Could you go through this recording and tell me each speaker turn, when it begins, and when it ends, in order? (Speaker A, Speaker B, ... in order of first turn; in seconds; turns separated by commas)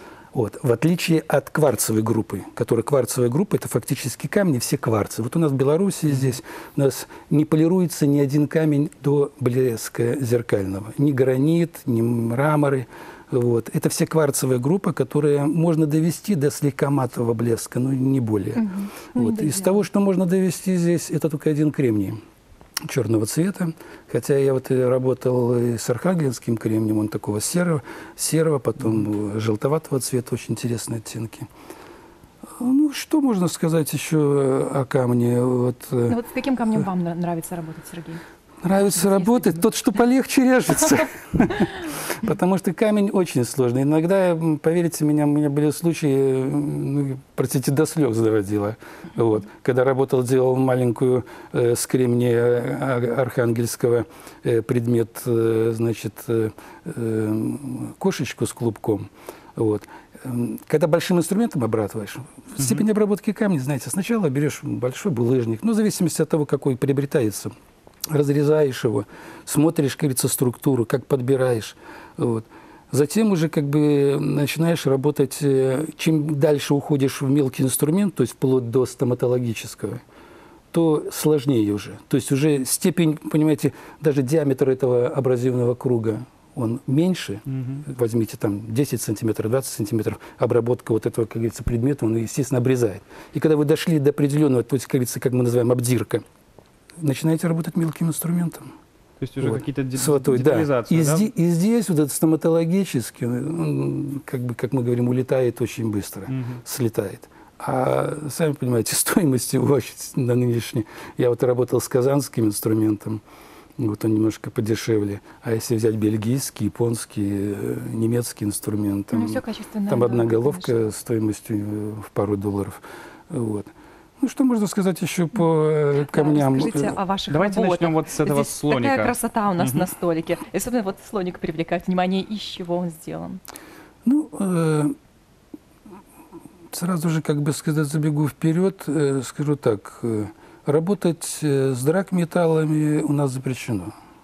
Speaker A: 0.3-22.2, Speaker B: 18.6-19.8, Speaker A: 22.9-31.5, Speaker A: 32.6-36.2, Speaker B: 36.1-38.2, Speaker A: 38.6-67.5, Speaker B: 38.7-39.6, Speaker A: 68.1-80.0, Speaker A: 80.7-96.2, Speaker C: 87.5-87.8, Speaker A: 97.0-98.7, Speaker C: 99.2-101.3, Speaker A: 99.4-113.2, Speaker C: 106.3-106.6, Speaker A: 113.8-127.0, Speaker B: 119.1-120.8, Speaker B: 126.1-133.4, Speaker C: 127.3-129.9, Speaker A: 134.1-134.9, Speaker A: 136.7-143.9